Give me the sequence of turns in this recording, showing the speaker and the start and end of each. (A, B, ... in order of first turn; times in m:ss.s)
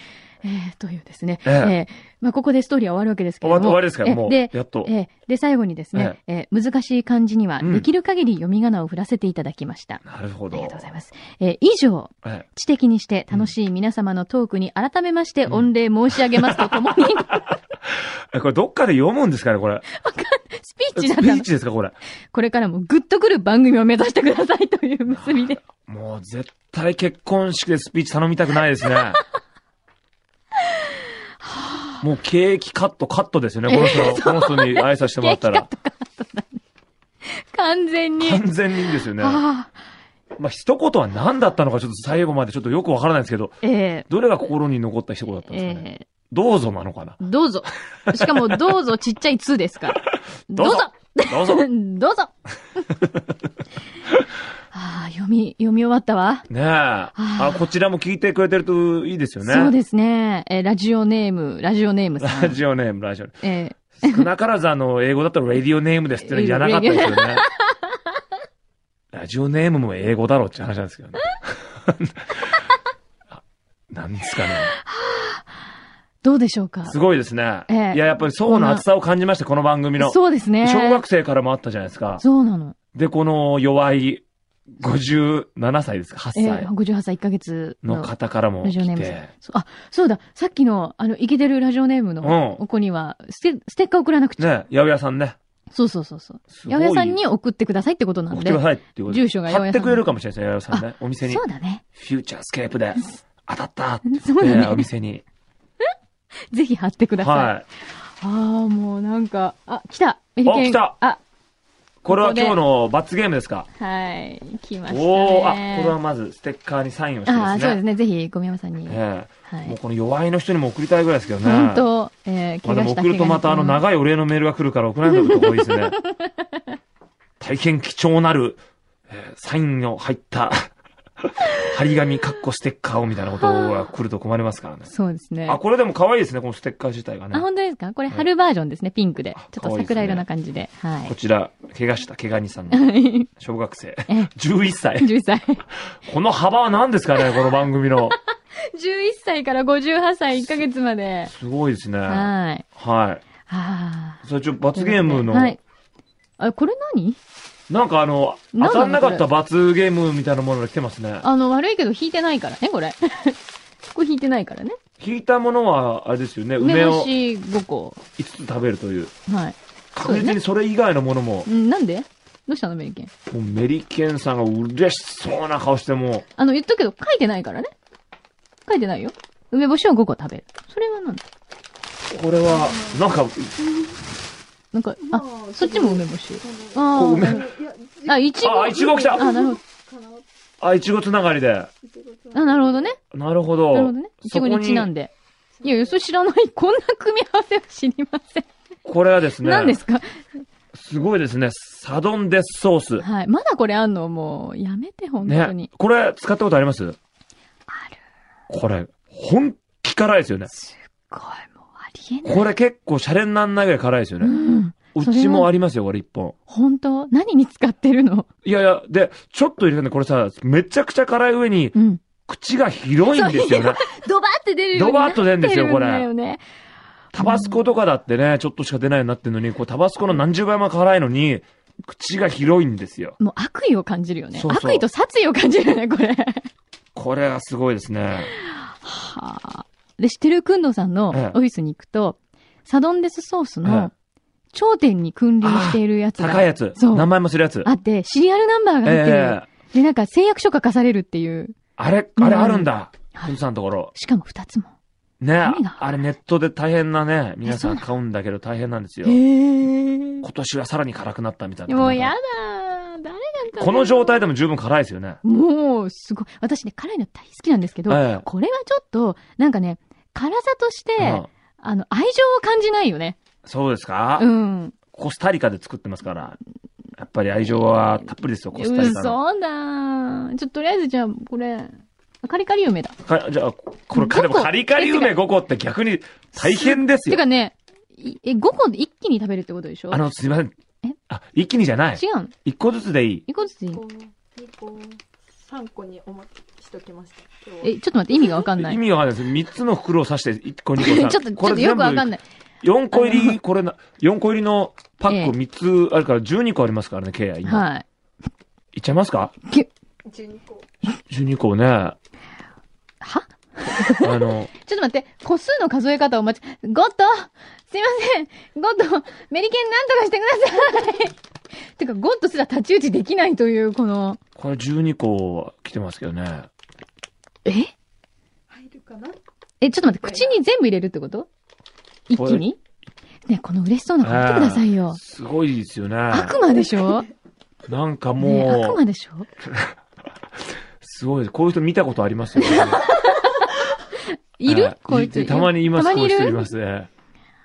0:00.4-0:17.5 A
0:01.4-0:01.7 B
0:03.4-0:04.9 B
0:07.6-0:07.9 B
0:10.0-0:10.8 B
0:16.3-0:16.9 B
0:18.3-0:19.8 B
0:19.9-0:21.5 A
0:21.0-0:22.0 B
0:22.3-0:25.6 A
0:25.1-0:29.2 B
0:31.4-0:32.0 A
0:32.0-0:35.7 B
0:33.7-0:36.6 A
0:37.2-0:39.7 A
0:38.2-0:39.4 B
0:40.4-0:47.2 B
0:43.6-0:44.1 A
0:45.5-0:46.0 A
0:47.2-0:52.3 A
0:48.1-0:48.7 B
0:50.5-0:51.7 B
0:54.7-0:56.5 A
0:56.5-0:59.7 B
0:57.2-0:57.6 A
0:59.4-1:02.6 A
1:02.2-1:03.4 B
1:03.4-1:04.3 A
1:03.9-1:07.4 B
1:06.2-1:08.0 A
1:09.1-1:12.4 B
1:13.9-1:14.7 B
1:14.4-1:15.4 A
1:16.2-1:16.9 A
1:16.8-1:22.2 B
1:17.7-1:18.8 A
1:20.0-1:21.0 A
1:22.2-1:22.7 A
1:22.9-1:24.2 B
1:24.8-1:26.7 B
1:26.3-1:34.5 A
1:27.8-1:29.3 B
1:32.2-1:32.6 B
1:34.4-1:35.4 B
1:35.7-1:40.0 A
1:36.5-1:37.2 B
1:38.3-1:41.4 B
1:40.7-1:41.8 A
1:41.9-1:45.2 B
1:44.1-1:44.9 A
1:46.5-1:47.6 A
1:47.2-1:47.6 B
1:48.2-1:51.2 A
1:50.4-1:50.9 B
1:52.0-1:53.7 B
1:52.0-1:52.6 A
1:53.8-1:55.9 A
1:54.9-1:57.8 B
1:57.2-1:59.8 A
1:58.9-2:01.9 B
2:01.4-2:03.8 A
2:02.6-2:06.0 B
2:05.1-2:05.9 A
2:07.4-2:10.6 B
2:11.2-2:14.9 B
2:13.4-2:13.8 A
2:14.9-2:15.6 A
2:15.5-2:17.5 B
2:17.3-2:21.1 A
2:19.4-2:20.2 B
2:21.0-2:25.1 B
2:22.7-2:23.3 A
2:25.0-2:25.6 A
2:26.0-2:28.2 B
2:28.1-2:31.3 A
2:31.3-2:33.2 B
2:32.1-2:32.6 A
2:33.4-2:34.2 A
2:34.2-2:35.6 B
2:34.7-2:35.6 A
2:36.4-2:37.2 A
2:37.7-2:41.3 B
2:38.5-2:39.2 A
2:41.2-2:43.4 A
2:43.9-2:44.8 A
2:45.0-2:47.1 B
2:46.6-2:48.0 A
2:48.2-2:49.1 B
2:49.3-2:50.4 A
2:49.9-2:51.5 B
2:51.4-2:53.1 A
2:53.3-2:56.2 B
2:56.4-2:57.7 A
2:58.6-3:01.2 A
3:02.1-3:03.5 B
3:02.6-3:03.0 C
3:04.7-3:07.5 A
3:05.1-3:10.2 C
3:06.9-3:07.5 B
3:08.0-3:09.6 A
3:08.4-3:09.3 B
3:10.6-3:11.7 B
3:11.8-3:12.9 C
3:12.3-3:13.0 A
3:13.1-3:14.9 B
3:13.7-3:18.5 A
3:15.6-3:16.0 C
3:18.8-3:19.8 B
3:19.4-3:20.2 A
3:20.7-3:23.0 B
3:23.0-3:25.7 A
3:25.2-3:27.0 B
3:27.7-3:28.0 A
3:28.5-3:30.5 B
3:30.5-3:32.4 A
3:32.2-3:34.4 B
3:34.2-3:35.5 A
3:34.9-3:36.3 B
3:36.5-3:38.3 A
3:38.4-3:43.8 B
3:41.7-3:42.0 A
3:43.1-3:46.4 A
3:44.7-3:46.1 B
3:47.1-3:53.2 B
3:47.2-3:47.6 A
3:53.2-3:56.5 A
3:54.3-3:54.8 B
3:56.9-3:58.3 B
3:58.3-4:03.9 A
4:01.1-4:01.4 B
4:03.6-4:03.9 B
4:04.5-4:07.1 A
4:05.4-4:07.7 B
4:07.6-4:11.6 A
4:08.8-4:09.5 B
4:11.8-4:13.9 B
4:12.2-4:13.3 A
4:13.9-4:14.7 A
4:15.2-4:19.2 B
4:15.4-4:15.8 A
4:17.4-4:17.8 A
4:19.0-4:20.2 A
4:20.2-4:22.1 B
4:21.7-4:24.2 A
4:23.6-4:25.2 B
4:25.2-4:33.2 A
4:27.9-4:28.2 B
4:31.0-4:31.3 B
4:33.4-4:34.3 B
4:34.2-4:34.8 A
4:34.9-4:36.4 B
4:37.0-4:39.2 B
4:38.5-4:43.0 A
4:43.0-4:47.2 B
4:43.9-4:45.2 A
4:46.4-4:50.0 A
4:49.9-4:50.5 B
4:51.1-4:53.2 B
4:52.0-4:52.3 A
4:53.3-4:53.8 A
4:53.7-4:57.7 C
4:57.6-4:58.8 A
4:58.6-5:07.6 B
5:00.8-5:02.2 A
5:02.9-5:03.4 A
5:05.1-5:05.3 A
5:07.4-5:07.8 A
5:08.7-5:09.3 B
5:10.0-5:10.7 C
5:11.1-5:12.0 B
5:13.0-5:21.2 A
5:13.9-5:14.5 B
5:21.8-5:24.2 A
5:24.4-5:26.5 B
5:27.4-5:27.7 A
5:28.5-5:29.2 C
5:29.6-5:31.3 A
5:30.0-5:30.4 C
5:32.1-5:32.6 A
5:32.1-5:32.4 B
5:33.3-5:35.0 A
5:34.0-5:36.3 B
5:36.1-5:37.1 A
5:37.7-5:38.8 B
5:38.2-5:39.3 A
5:39.4-5:39.7 B
5:40.8-5:42.8 B
5:42.4-5:43.6 A
5:44.4-5:46.5 A
5:44.4-5:46.9 B